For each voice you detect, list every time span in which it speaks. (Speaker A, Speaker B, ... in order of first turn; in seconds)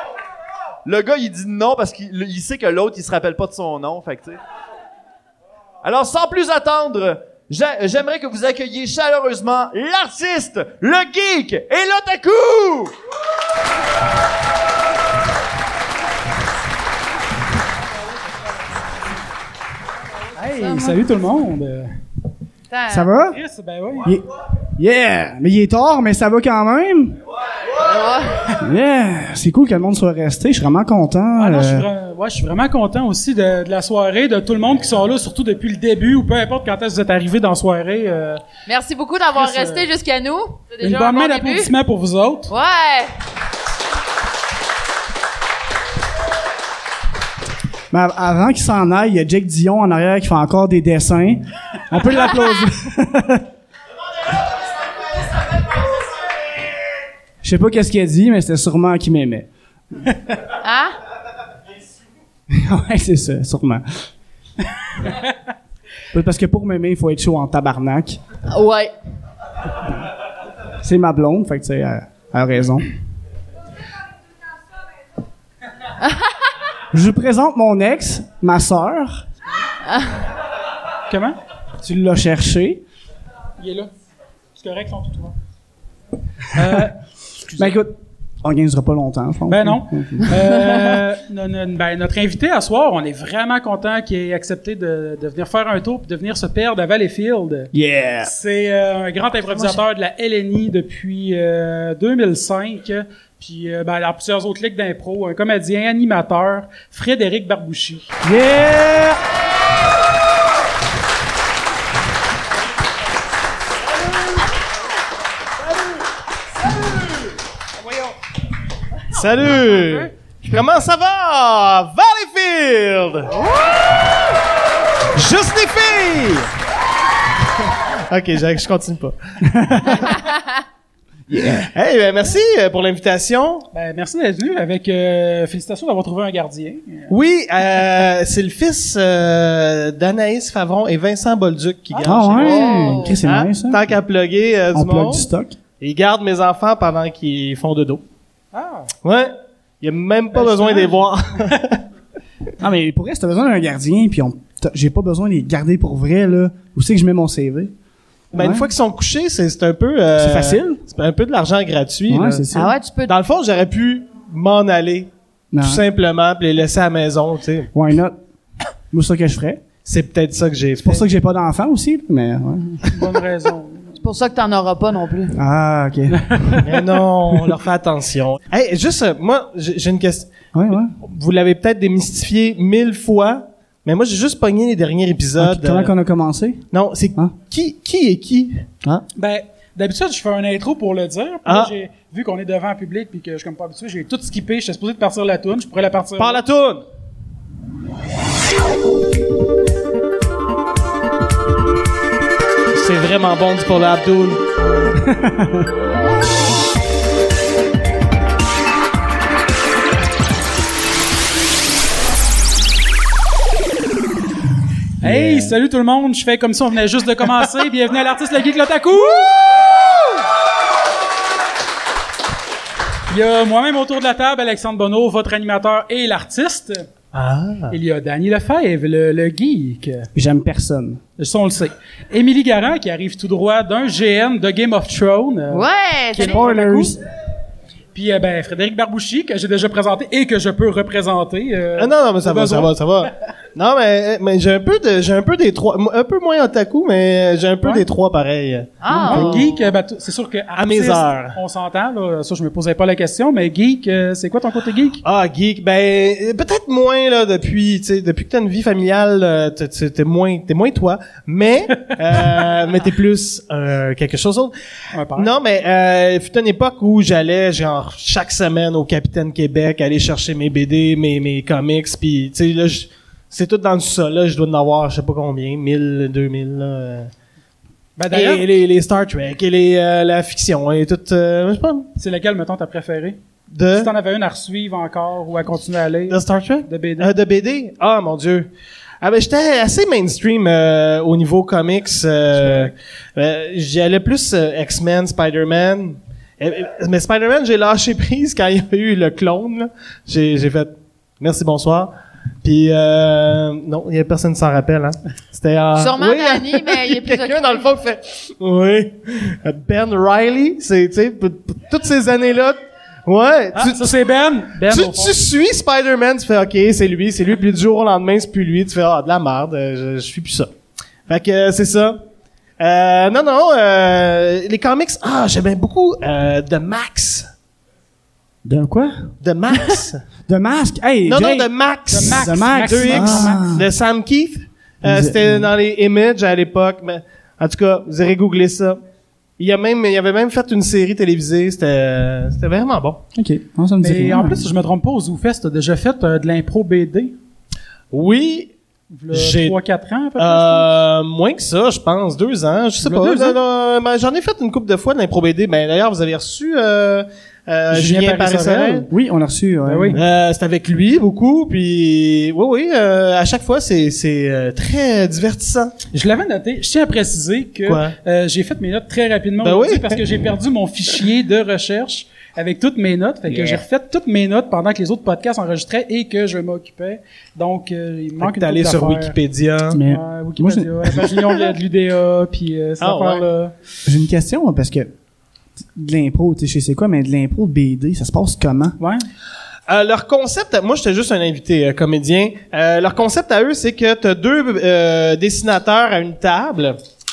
Speaker A: 0.8-4.4, 5.8-12.9
Speaker B: 20.4-21.9, 23.3-24.1, 31.4-38.4, 39.4-39.9, 40.8-42.5, 81.1-81.4, 83.6-83.9, 84.5-85.4, 86.5-87.0, 89.5-97.7, 98.2-108.1, 133.7-137.1, 148.5-148.9, 150.3-150.9, 172.9-174.0, 176.2-176.7, 189.2-196.4, 215.0-219.3, 223.1-226.9, 227.7-230.1, 231.2-235.7, 236.2-236.9, 237.9-242.7, 249.0-255.0, 264.9-265.3, 278.0-278.4, 282.0-283.2, 283.8-287.1, 292.4-292.7, 313.6-315.2, 331.9-333.4, 343.8-347.1, 348.9-350.7, 352.8-353.4, 357.7-358.9, 359.7-360.0, 365.9-379.2, 379.8-383.5, 388.8-389.1
Speaker C: 20.6-21.0, 22.7-23.1, 27.8-28.5, 38.7-41.7, 42.5-43.1, 60.6-61.0, 68.5-68.9, 142.3-143.2, 162.5-163.1, 174.0-175.4, 235.5-236.6, 248.8-249.5, 305.8-307.7
Speaker D: 22.9-23.4, 24.0-27.2, 28.6-31.9, 47.9-53.5, 57.4-59.5, 62.5-63.9, 66.1-68.2, 70.8-72.9, 76.9-79.2, 81.8-82.8, 87.6-90.4, 97.7-98.3, 108.2-109.2, 129.4-130.1, 131.3-131.7, 142.0-143.9, 144.7-145.6, 152.6-157.7, 158.3-158.7, 160.2-160.8, 162.1-162.8, 165.5-165.8, 167.7-168.2, 168.9-169.6, 170.8-173.1, 175.3-176.6, 180.5-180.9, 185.4-187.3, 205.0-205.7, 215.0-215.5, 230.2-231.0, 236.1-237.0, 328.4-329.1, 330.3-331.5, 332.0-333.7, 334.8-335.5, 343.1-344.5, 358.9-360.0, 373.3-373.6, 379.7-381.0, 383.9-384.9, 385.7-388.8
Speaker E: 119.1-123.4, 125.1-126.5, 127.6-129.2, 129.8-130.2, 131.7-133.7, 137.1-145.3, 145.8-148.0, 149.0-151.8, 158.3-162.5, 163.1-167.7, 169.8-171.1, 176.6-180.3, 181.0-185.9, 186.7-188.7, 191.5-191.7, 196.2-196.8, 202.7-204.4, 227.1-227.7, 241.8-249.5, 250.6-251.4, 255.0-264.5, 265.1-277.1, 278.1-281.9, 283.5-283.9, 286.1-288.5, 289.0-301.9, 302.4-313.9, 314.7-320.5, 321.1-322.0, 322.6-327.3, 329.2-330.0, 331.1-338.8, 339.4-343.0, 347.9-348.5, 349.1-349.6, 350.2-358.9, 359.9-365.8, 367.7-368.0, 369.4-370.0, 378.2-379.8, 382.8-383.3, 389.7-396.8